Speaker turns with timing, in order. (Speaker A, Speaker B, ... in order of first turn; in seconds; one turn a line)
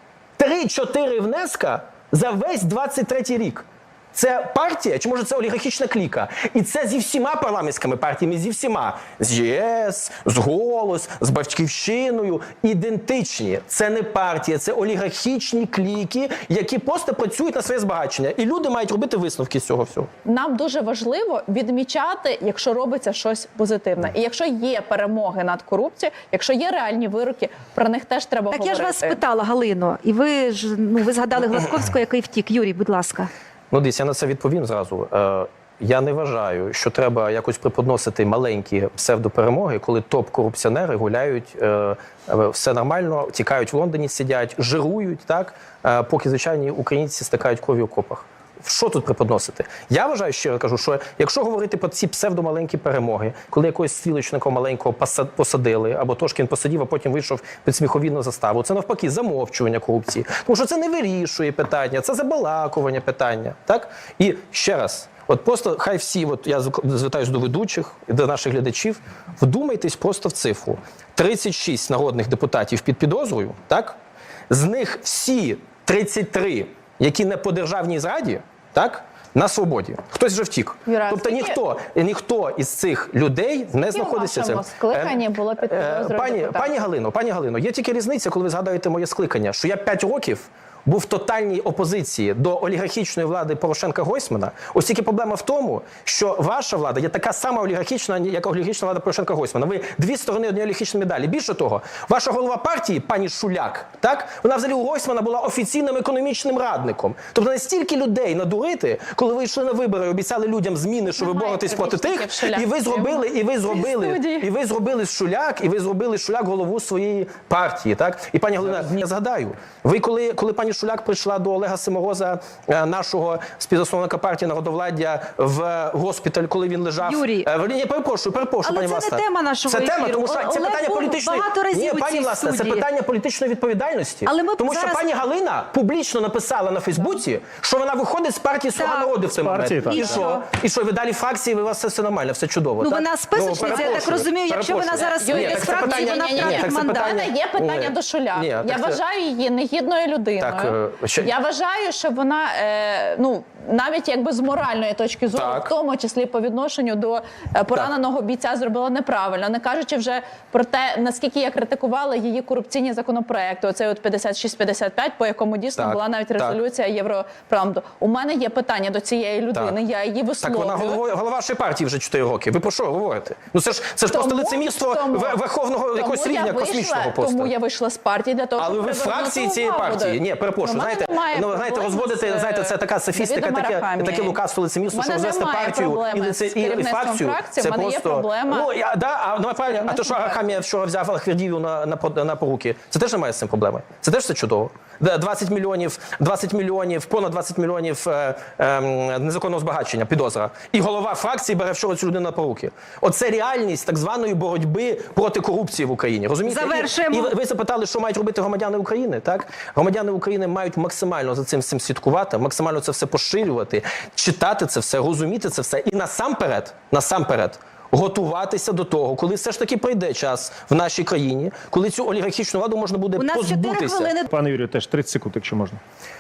Speaker A: 0.4-20.1
Speaker B: 20.2-29.2
Speaker C: 28.5-33.3
Speaker A: 33.7-74.0
Speaker A: 74.5-149.0
Speaker B: 80.9-81.6
Speaker B: 83.8-86.9
Speaker B: 111.2-114.4
Speaker C: 127.0-127.5
Speaker C: 128.6-132.9
Speaker C: 134.3-135.0
Speaker C: 138.8-139.1
Speaker D: 139.4-140.2
Speaker C: 139.9-140.4
Speaker C: 142.8-147.3
Speaker B: 143.6-144.1
Speaker B: 145.0-171.0
Speaker A: 150.4-151.3
Speaker A: 155.3-155.7
Speaker A: 165.8-166.6
Speaker A: 170.4-177.5
Speaker B: 174.1-175.4
Speaker B: 175.9-184.4
Speaker A: 178.6-224.1
Speaker B: 184.9-188.7
Speaker B: 189.9-190.3
Speaker C: 206.5-207.3
Speaker C: 223.2-224.3
Speaker D: 224.3-225.8